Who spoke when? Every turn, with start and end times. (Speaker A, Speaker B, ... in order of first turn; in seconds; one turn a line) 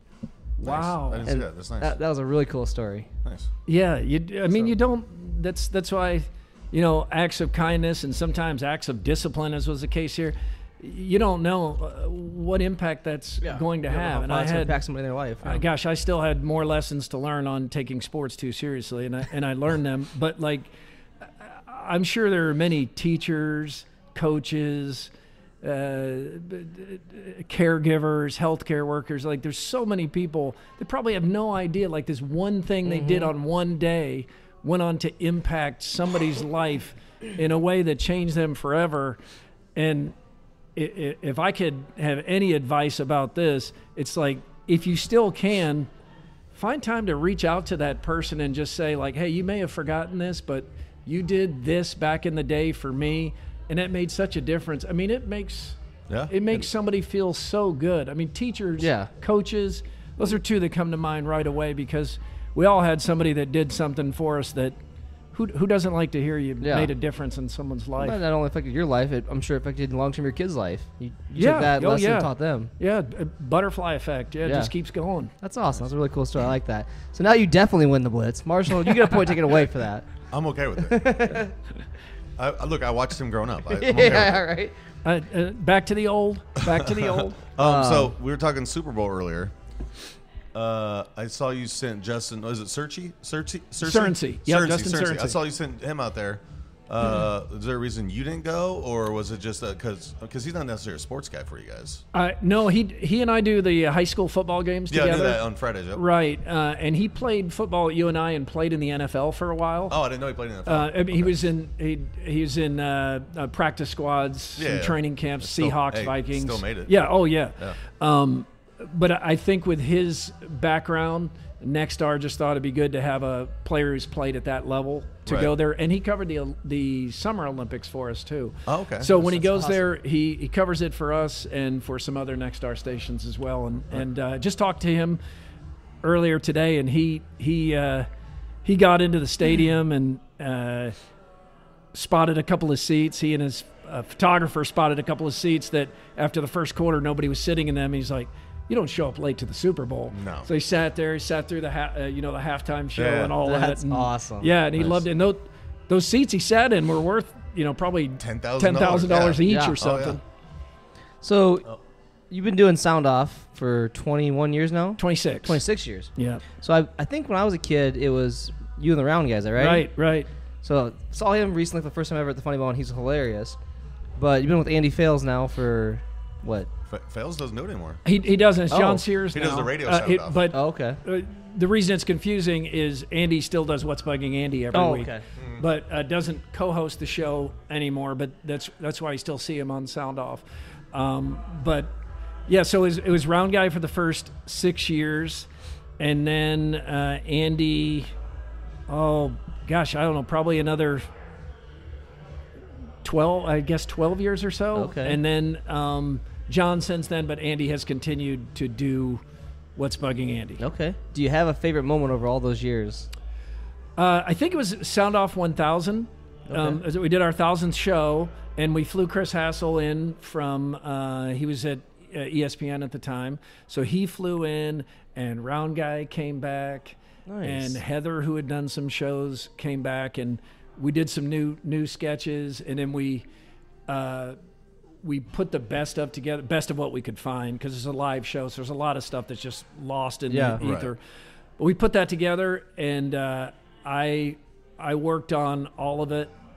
Speaker A: 0.6-1.3
Speaker B: 0.6-2.0
Speaker C: 1.3-3.1
Speaker A: 3.7-14.7
Speaker C: 13.4-15.7
Speaker A: 15.4-20.7
Speaker A: 21.4-25.1
Speaker A: 25.6-39.2
Speaker C: 32.9-33.3
Speaker A: 39.8-40.1
Speaker A: 40.8-45.9
Speaker A: 46.5-55.8
Speaker B: 56.1-56.6
Speaker A: 56.3-64.8
Speaker C: 58.8-59.1
Speaker A: 65.3-68.2
Speaker C: 66.6-66.9
Speaker C: 68.0-72.7
Speaker A: 71.4-75.3
Speaker C: 74.5-74.7
Speaker C: 75.4-80.1
Speaker B: 80.3-81.1
Speaker C: 80.8-81.5
Speaker B: 82.4-84.4
Speaker C: 83.7-84.7
Speaker A: 85.0-87.5
Speaker B: 86.7-89.5
Speaker C: 87.6-88.1
Speaker B: 90.5-102.0
Speaker A: 93.8-95.4
Speaker A: 102.1-110.0
Speaker B: 104.9-106.0
Speaker B: 109.9-111.4
Speaker A: 110.7-135.2
Speaker B: 114.6-117.0
Speaker B: 125.3-125.5
Speaker B: 128.7-129.1
Speaker C: 129.1-129.9
Speaker A: 136.0-138.1
Speaker A: 138.7-140.9
Speaker A: 141.9-160.2
Speaker B: 150.1-150.5
Speaker B: 153.0-153.4
Speaker C: 153.4-154.5
Speaker B: 154.8-155.0
Speaker B: 158.2-160.2
Speaker C: 159.5-159.8
Speaker C: 161.2-161.7
Speaker C: 162.3-169.9
Speaker A: 165.0-165.6
Speaker A: 166.2-166.4
Speaker A: 169.6-170.3
Speaker C: 170.6-173.6
Speaker C: 174.2-176.7
Speaker B: 176.9-178.0
Speaker A: 178.1-191.9
Speaker C: 178.7-179.0
Speaker B: 179.3-180.5
Speaker C: 180.5-181.0
Speaker C: 184.7-185.2
Speaker B: 185.4-185.6
Speaker A: 192.5-195.5
Speaker A: 196.0-198.1
Speaker A: 198.9-201.1
Speaker A: 203.0-209.2
Speaker C: 204.8-205.2
Speaker A: 209.8-210.6
Speaker C: 210.6-213.1
Speaker A: 214.0-233.2
Speaker C: 216.5-216.8
Speaker C: 227.3-227.8
Speaker A: 233.9-234.4
Speaker A: 235.0-241.0
Speaker C: 240.3-240.6
Speaker B: 240.6-240.9
Speaker A: 241.6-246.3